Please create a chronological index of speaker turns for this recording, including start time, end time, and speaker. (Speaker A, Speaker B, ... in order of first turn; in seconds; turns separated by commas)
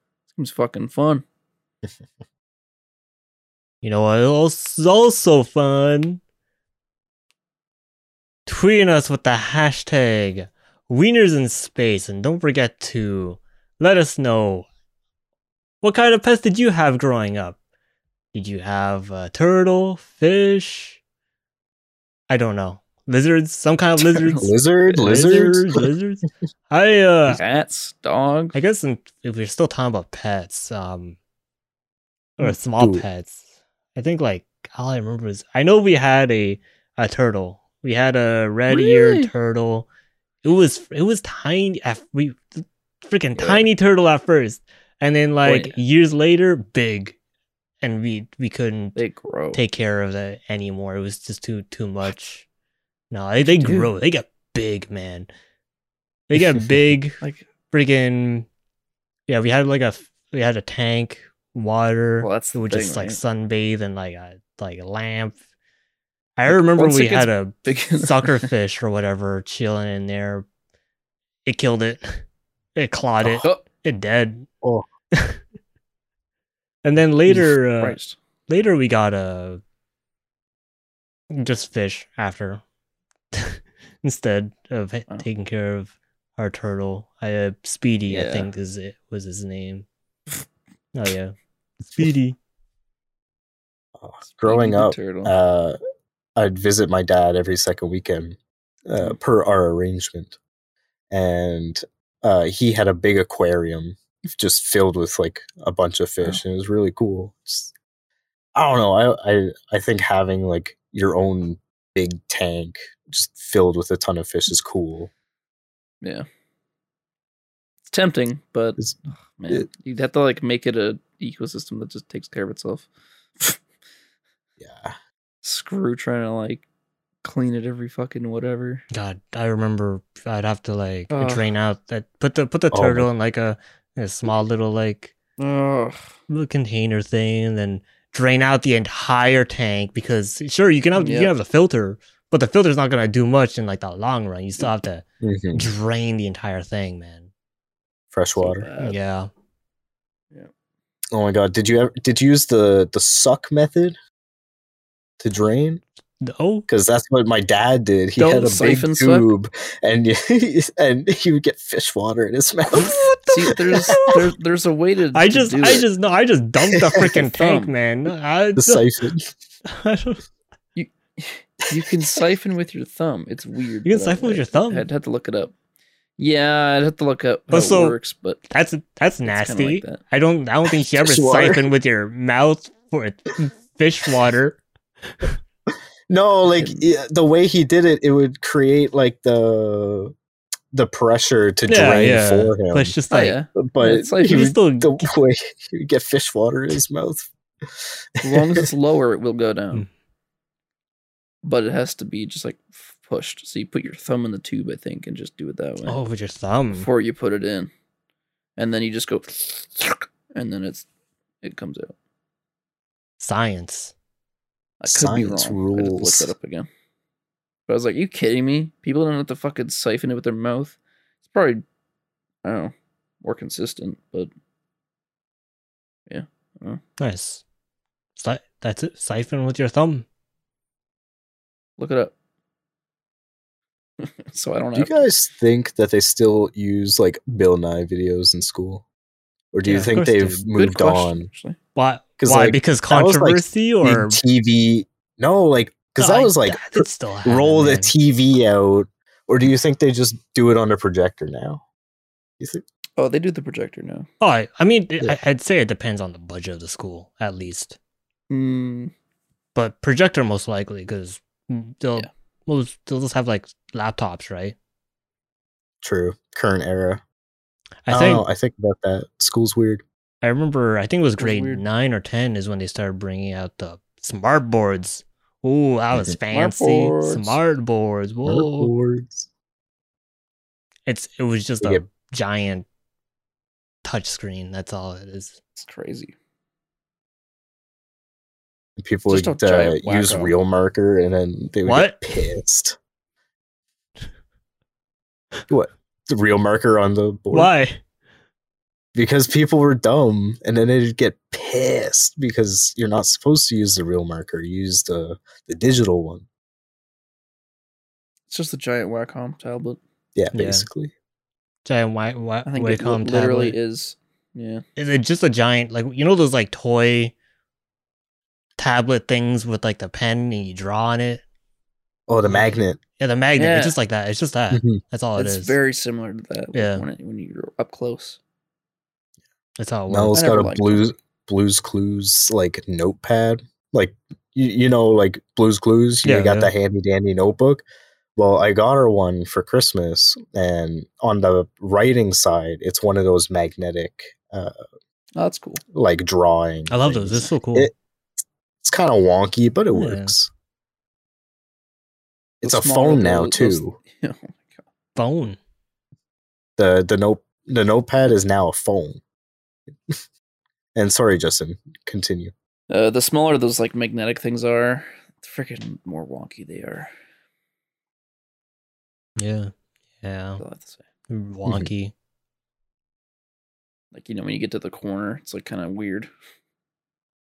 Speaker A: 0.3-1.2, Speaker B: 3.8-6.2, Speaker B: 8.5-14.7, Speaker B: 15.8-17.6, Speaker B: 18.3-21.0, Speaker B: 22.3-27.4, Speaker A: 24.0-24.5, Speaker C: 24.4-25.8, Speaker A: 27.3-28.6, Speaker B: 28.5-31.2, Speaker B: 32.4-33.4, Speaker C: 32.4-33.0, Speaker B: 33.9-39.9, Speaker A: 38.7-39.3, Speaker B: 40.4-47.1, Speaker A: 43.4-43.6, Speaker A: 45.4-45.8, Speaker B: 47.8-49.0, Speaker A: 49.0-49.6, Speaker B: 49.5-52.5, Speaker B: 53.1-55.3, Speaker A: 53.5-53.9, Speaker B: 56.3-57.2, Speaker B: 57.7-58.5, Speaker B: 59.3-65.4, Speaker A: 62.2-63.2, Speaker B: 66.4-70.5, Speaker A: 66.5-68.5, Speaker B: 71.5-72.2, Speaker B: 72.8-74.5, Speaker B: 75.1-75.4, Speaker B: 76.8-78.0, Speaker A: 77.3-78.2, Speaker B: 78.5-79.6, Speaker B: 81.3-82.6, Speaker B: 83.3-89.8, Speaker A: 88.1-88.5, Speaker B: 90.9-91.3, Speaker B: 91.9-92.4, Speaker C: 94.0-95.8, Speaker A: 94.4-95.3, Speaker C: 96.4-100.4, Speaker C: 101.1-107.7, Speaker C: 108.5-115.1, Speaker A: 117.9-118.8, Speaker A: 119.4-122.9, Speaker C: 124.6-124.9, Speaker A: 125.4-126.6, Speaker A: 127.2-128.8, Speaker B: 128.9-135.1, Speaker A: 131.1-131.5, Speaker C: 132.7-133.1, Speaker A: 135.4-136.0, Speaker B: 136.3-147.3, Speaker A: 140.9-141.3, Speaker C: 145.2-145.7, Speaker C: 148.1-148.7, Speaker A: 148.4-149.0, Speaker B: 148.8-149.3, Speaker C: 151.1-154.0, Speaker C: 155.2-155.8, Speaker B: 156.2-156.7, Speaker C: 156.7-164.1, Speaker A: 158.2-159.3, Speaker B: 162.7-164.2, Speaker A: 163.3-165.9, Speaker B: 165.1-168.8, Speaker C: 166.8-167.1, Speaker A: 167.0-167.7, Speaker C: 168.6-169.3, Speaker B: 169.7-170.2, Speaker A: 170.8-175.5, Speaker C: 171.7-172.2, Speaker B: 173.8-174.9, Speaker A: 176.2-178.4, Speaker B: 177.5-177.9, Speaker B: 178.5-184.6, Speaker A: 179.2-180.0, Speaker C: 180.7-181.7, Speaker C: 186.1-190.1, Speaker A: 186.6-186.8, Speaker C: 190.7-193.0, Speaker B: 191.7-193.3, Speaker A: 193.1-194.5, Speaker C: 193.6-198.6, Speaker B: 194.2-195.1, Speaker A: 198.2-199.8, Speaker A: 201.4-206.0, Speaker B: 205.8-206.9, Speaker A: 206.7-207.7, Speaker A: 208.6-210.8, Speaker A: 211.4-211.9, Speaker B: 213.2-213.9, Speaker A: 214.8-216.7, Speaker C: 214.9-216.3, Speaker A: 217.7-221.6, Speaker A: 222.4-224.3, Speaker A: 226.1-226.8, Speaker B: 227.0-227.4, Speaker B: 228.2-230.1, Speaker A: 231.8-232.1, Speaker A: 234.0-234.9, Speaker C: 234.7-238.8, Speaker C: 239.5-241.3, Speaker B: 239.6-240.4, Speaker A: 240.5-241.6, Speaker B: 241.7-244.2, Speaker C: 242.2-251.6, Speaker B: 246.0-247.9, Speaker C: 252.4-252.6, Speaker A: 253.0-254.1, Speaker B: 254.2-257.8, Speaker A: 258.3-258.9, Speaker B: 259.5-264.6, Speaker C: 265.8-267.0, Speaker B: 267.9-268.3, Speaker C: 267.9-269.8, Speaker B: 270.2-278.7, Speaker A: 271.2-271.6, Speaker A: 276.3-277.4, Speaker C: 278.2-279.3, Speaker B: 280.9-282.6, Speaker B: 283.8-285.3, Speaker A: 285.6-286.1, Speaker C: 288.8-292.8, Speaker A: 289.1-290.3, Speaker B: 291.6-292.0, Speaker C: 295.5-297.5, Speaker B: 297.3-297.8, Speaker C: 298.9-306.2, Speaker A: 308.3-309.8, Speaker C: 310.1-310.9, Speaker B: 310.3-310.7, Speaker B: 311.6-313.6, Speaker A: 312.4-314.6, Speaker B: 314.8-317.1, Speaker B: 318.6-321.2, Speaker C: 322.1-322.8, Speaker B: 323.0-325.6, Speaker A: 323.4-323.8, Speaker C: 324.5-324.8, Speaker A: 325.1-328.2, Speaker B: 326.5-326.8, Speaker B: 329.6-330.2, Speaker C: 329.9-337.6, Speaker A: 330.1-330.9, Speaker B: 336.0-336.5, Speaker C: 338.1-344.6, Speaker A: 345.1-345.6, Speaker C: 345.7-347.7, Speaker B: 346.7-347.7, Speaker C: 348.6-350.3, Speaker B: 349.7-350.1, Speaker C: 352.4-353.8, Speaker A: 352.4-354.6, Speaker B: 354.9-355.4, Speaker C: 356.6-359.0, Speaker C: 360.8-362.3, Speaker A: 362.7-366.9, Speaker B: 369.2-370.4, Speaker A: 370.4-370.8, Speaker B: 371.1-371.9, Speaker A: 373.9-376.1